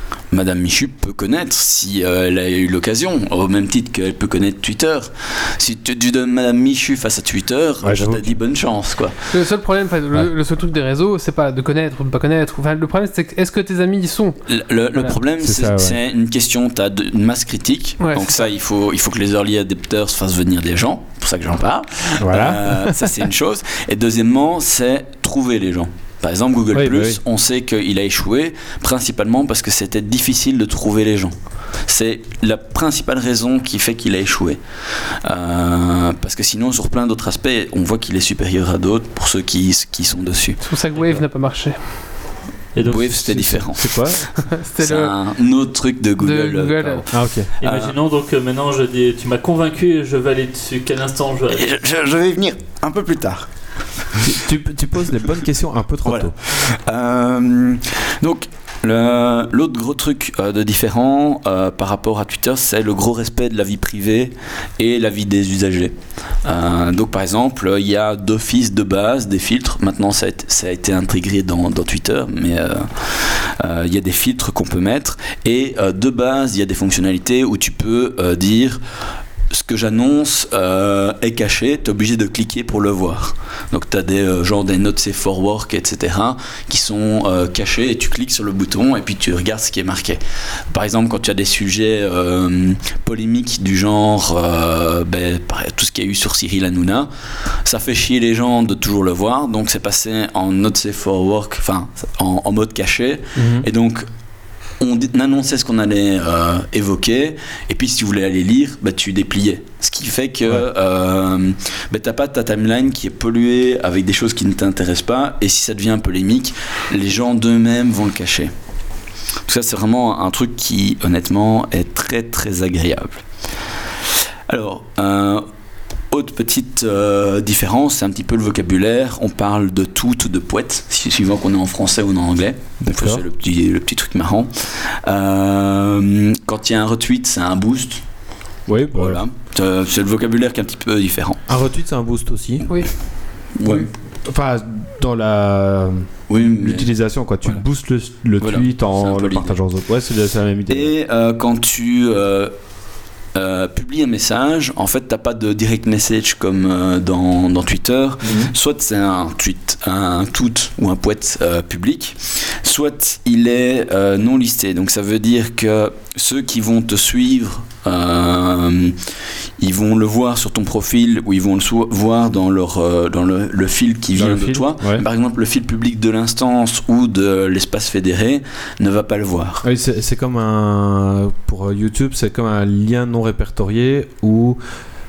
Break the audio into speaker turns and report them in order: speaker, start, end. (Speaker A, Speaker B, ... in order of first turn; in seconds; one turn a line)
Speaker A: 0.3-9.1
Speaker B: 7.8-8.4
Speaker C: 9.3-14.4
Speaker A: 14.5-34.6
Speaker B: 15.4-16.0
Speaker C: 18.0-18.4
Speaker B: 22.2-23.1
Speaker B: 26.7-27.2
Speaker A: 35.2-40.6
Speaker C: 40.6-42.2
Speaker D: 42.7-43.4
Speaker A: 42.8-44.1
Speaker B: 43.2-44.3
Speaker C: 44.5-45.1
Speaker A: 44.8-47.9
Speaker C: 46.2-47.0
Speaker B: 47.1-47.5
Speaker D: 47.6-51.7
Speaker A: 51.5-53.5
Speaker B: 54.2-56.3
Speaker A: 56.0-78.8
Speaker A: 79.5-90.2
Speaker A: 90.7-97.1
Speaker A: 97.6-104.0
Speaker B: 103.3-103.6
Speaker A: 104.8-118.5
Speaker A: 119.5-123.2
Speaker A: 124.5-125.4
Speaker A: 126.1-138.0
Speaker B: 132.8-133.2
Speaker B: 138.7-139.2
Speaker A: 138.9-141.4
Speaker B: 141.5-142.7
Speaker A: 143.6-143.9
Speaker B: 143.7-150.9
Speaker A: 146.3-146.9
Speaker A: 148.4-149.6
Speaker A: 150.7-152.5
Speaker A: 153.3-168.9
Speaker B: 158.2-158.5
Speaker A: 169.6-179.6
Speaker B: 174.1-175.0
Speaker B: 179.6-184.6